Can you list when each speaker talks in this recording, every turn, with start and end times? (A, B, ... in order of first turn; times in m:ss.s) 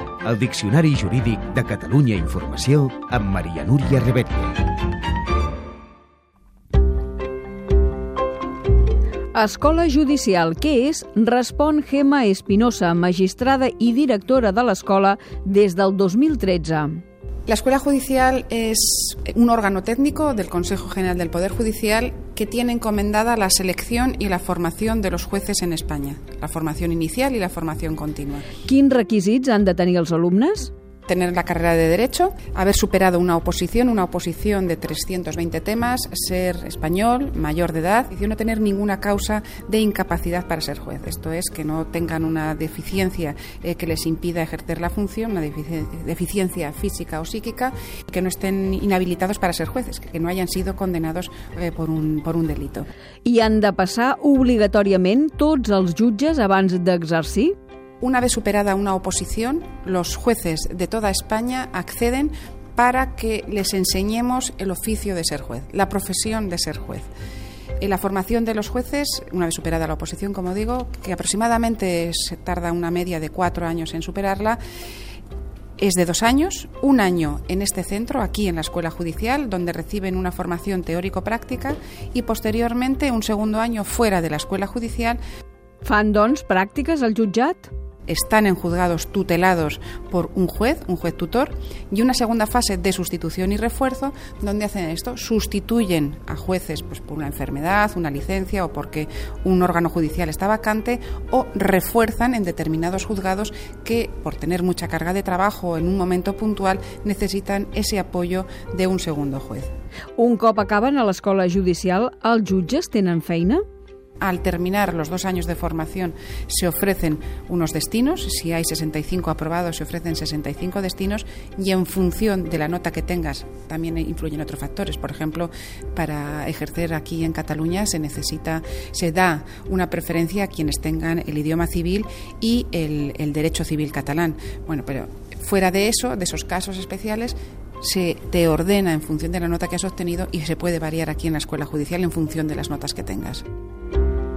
0:00.2-0:04.6 A
0:09.3-0:17.0 B
0:17.5-0:28.5 C
0:28.6-0:30.7 B
0:31.1-0:52.9 C
0:53.2-0:57.5 B
0:58.0-1:07.1 C
1:07.8-1:14.6 C
1:15.8-1:25.2 C
1:25.8-1:27.7 B
1:28.1-1:49.7 C
1:50.2-1:53.6 B
1:54.2-2:23.4 C